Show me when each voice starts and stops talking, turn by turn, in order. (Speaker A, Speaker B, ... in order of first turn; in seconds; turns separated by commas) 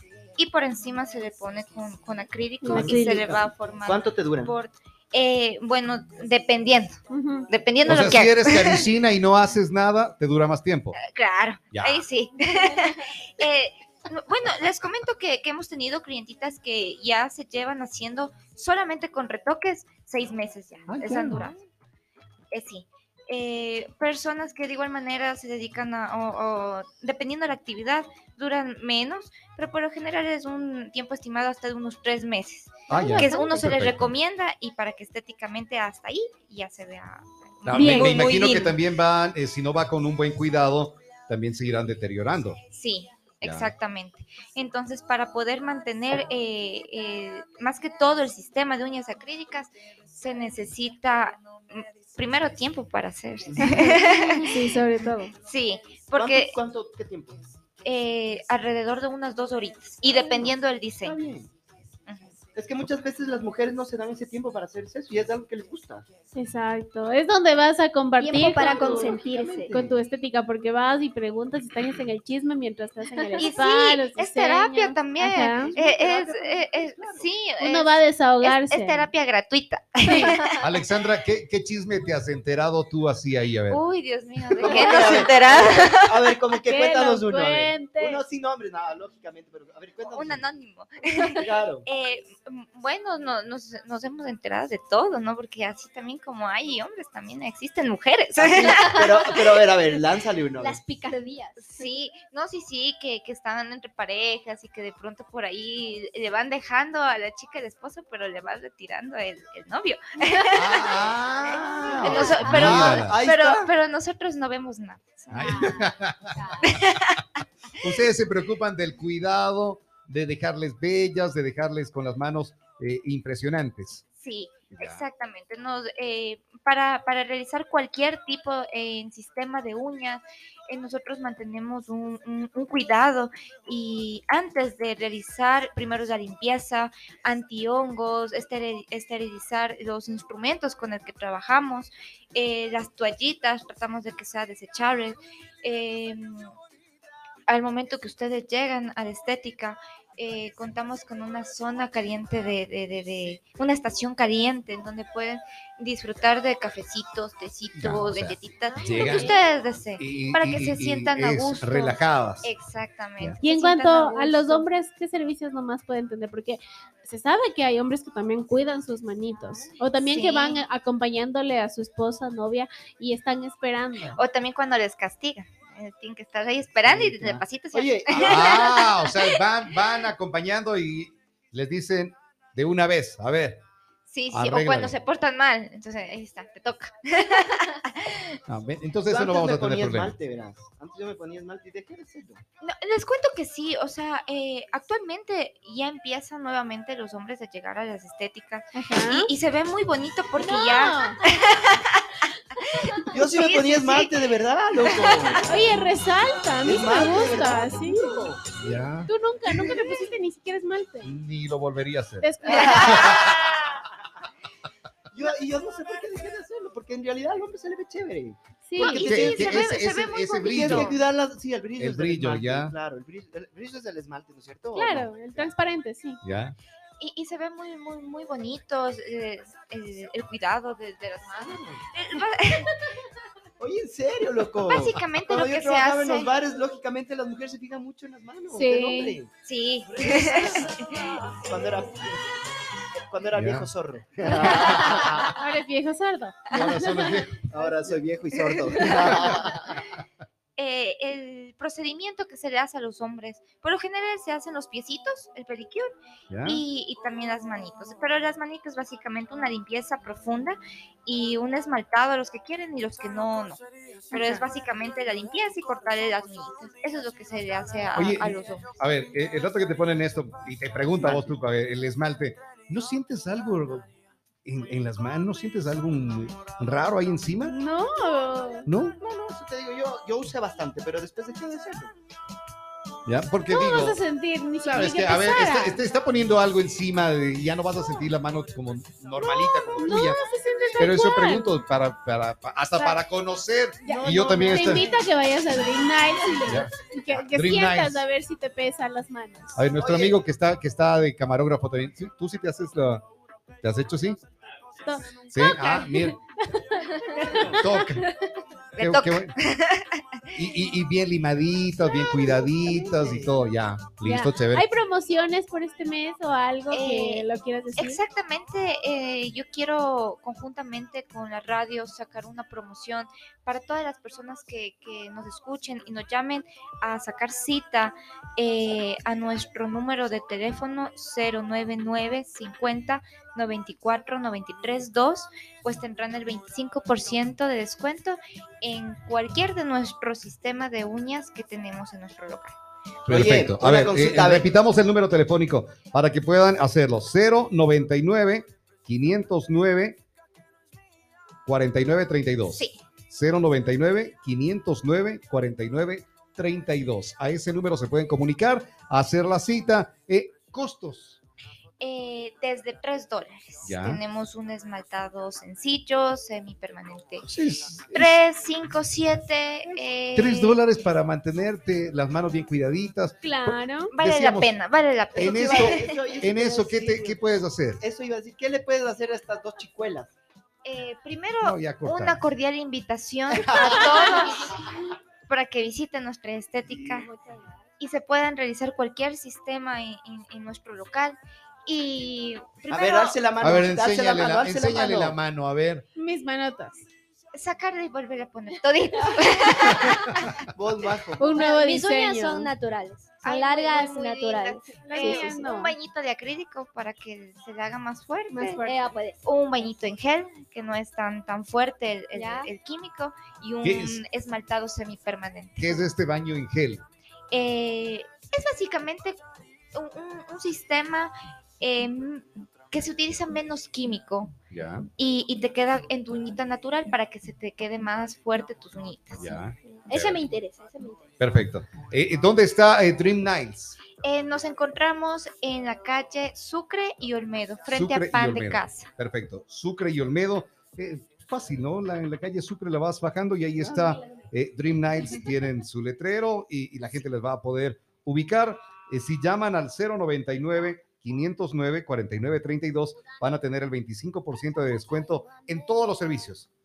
Speaker A: 0.3-7.0, Speaker B: 2.6-3.3, Speaker C: 2.7-4.5, Speaker B: 7.1-7.5, Speaker A: 7.5-8.9, Speaker D: 7.8-11.0, Speaker A: 11.0-21.6, Speaker D: 11.7-12.0, Speaker D: 20.9-21.5, Speaker A: 22.5-38.8, Speaker C: 32.9-33.3, Speaker D: 32.9-34.1, Speaker E: 33.2-33.5, Speaker D: 37.6-42.6, Speaker B: 37.7-38.2, Speaker A: 42.7-54.7, Speaker D: 43.4-43.7, Speaker C: 53.5-54.0, Speaker B: 53.6-55.3, Speaker A: 55.4-56.5, Speaker C: 56.1-57.4, Speaker A: 57.8-61.2, Speaker C: 60.2-61.5, Speaker A: 62.1-62.3, Speaker C: 62.5-66.0, Speaker B: 66.3-75.7, Speaker E: 68.2-69.7, Speaker C: 68.6-70.0, Speaker A: 73.4-80.5, Speaker C: 75.5-77.3, Speaker B: 77.6-79.1, Speaker B: 80.0-80.3, Speaker D: 80.6-83.8, Speaker A: 83.7-86.2, Speaker C: 84.6-90.5, Speaker B: 86.5-88.2, Speaker A: 90.1-99.4, Speaker C: 91.4-91.8, Speaker C: 98.4-100.8, Speaker E: 98.6-99.0, Speaker E: 100.5-101.8, Speaker A: 101.6-111.1, Speaker D: 110.5-113.2, Speaker C: 111.5-113.7, Speaker A: 112.0-115.9, Speaker B: 112.2-112.5, Speaker D: 115.3-116.9, Speaker A: 116.6-117.2, Speaker D: 117.8-124.0, Speaker A: 124.2-146.5, Speaker D: 124.7-125.0, Speaker A: 147.5-164.7, Speaker D: 157.7-159.3, Speaker B: 158.7-159.4, Speaker D: 160.0-162.5, Speaker B: 163.4-174.2, Speaker A: 170.0-170.6, Speaker A: 174.2-179.4, Speaker D: 176.8-177.4, Speaker C: 177.7-178.7, Speaker D: 178.2-183.6, Speaker A: 184.1-188.4, Speaker D: 184.3-184.9, Speaker D: 188.5-190.2, Speaker C: 189.1-192.4, Speaker A: 192.6-204.2, Speaker B: 198.7-199.3, Speaker B: 200.4-201.2, Speaker C: 203.1-205.4, Speaker A: 204.8-205.4, Speaker B: 205.5-208.3, Speaker C: 206.6-208.6, Speaker D: 208.6-209.1, Speaker B: 209.1-211.1, Speaker D: 211.0-213.4, Speaker B: 212.2-213.3, Speaker C: 212.4-213.8, Speaker C: 215.1-219.8, Speaker B: 218.7-219.3, Speaker A: 218.8-220.9, Speaker D: 219.0-221.0, Speaker C: 220.4-225.5, Speaker D: 221.8-222.7, Speaker B: 224.7-226.2, Speaker D: 226.2-226.6, Speaker A: 227.0-232.7, Speaker C: 231.3-231.8, Speaker C: 233.6-239.3, Speaker A: 234.7-236.3, Speaker B: 238.5-239.2, Speaker A: 239.4-241.1, Speaker C: 239.8-240.7, Speaker C: 241.2-242.2, Speaker C: 243.1-245.3, Speaker D: 243.3-245.2, Speaker B: 244.6-247.2, Speaker D: 246.5-247.4, Speaker C: 247.5-249.7, Speaker A: 248.3-249.5, Speaker A: 250.6-255.9, Speaker D: 256.3-256.6, Speaker A: 256.4-268.7, Speaker B: 264.1-264.4, Speaker D: 267.9-273.9, Speaker C: 271.0-271.3, Speaker D: 274.4-277.6, Speaker B: 277.4-278.7, Speaker D: 278.6-279.0, Speaker C: 279.0-281.9, Speaker D: 283.1-284.0, Speaker B: 283.5-285.8, Speaker D: 284.6-290.2, Speaker B: 289.2-291.5, Speaker C: 290.4-290.8, Speaker D: 290.8-294.9, Speaker B: 293.8-299.6, Speaker C: 293.8-295.0, Speaker D: 296.4-298.0, Speaker D: 299.5-303.0, Speaker C: 299.7-300.2, Speaker D: 303.6-304.2, Speaker B: 304.8-308.2, Speaker D: 305.3-306.1, Speaker C: 307.2-307.7, Speaker D: 307.5-308.1, Speaker D: 308.8-309.3, Speaker A: 308.8-310.0, Speaker D: 310.3-314.7, Speaker C: 312.4-313.4, Speaker B: 314.0-318.0, Speaker A: 316.7-317.2, Speaker A: 317.8-342.5, Speaker D: 343.1-350.0, Speaker C: 343.1-344.5, Speaker D: 351.4-361.2, Speaker A: 352.4-352.8, Speaker A: 361.8-367.2, Speaker D: 363.6-364.0, Speaker D: 367.2-368.2, Speaker A: 367.9-370.6, Speaker D: 370.1-374.5, Speaker B: 373.2-373.9, Speaker A: 373.9-375.8, Speaker D: 375.1-377.8, Speaker C: 375.1-377.2, Speaker C: 377.8-380.1, Speaker A: 380.6-384.7, Speaker D: 381.4-382.2, Speaker C: 383.3-384.3, Speaker A: 385.3-387.1, Speaker C: 386.6-386.9, Speaker E: 386.9-387.6, Speaker A: 387.8-393.2, Speaker C: 392.7-395.2, Speaker D: 393.4-395.9, Speaker B: 395.9-396.9, Speaker A: 397.3-400.4, Speaker C: 400.4-401.3, Speaker B: 401.2-402.5, Speaker E: 401.3-405.3, Speaker A: 403.2-408.7, Speaker B: 404.8-405.7, Speaker B: 408.3-408.8, Speaker E: 408.3-409.2, Speaker A: 409.2-415.9, Speaker E: 412.1-412.5, Speaker D: 413.6-414.0, Speaker D: 415.6-416.8, Speaker A: 417.3-419.2, Speaker A: 419.7-424.3, Speaker D: 424.5-424.9, Speaker A: 425.0-429.4, Speaker D: 429.1-430.2, Speaker E: 429.9-431.0, Speaker D: 431.2-433.8, Speaker A: 434.0-438.9, Speaker D: 437.7-456.5, Speaker A: 445.1-445.3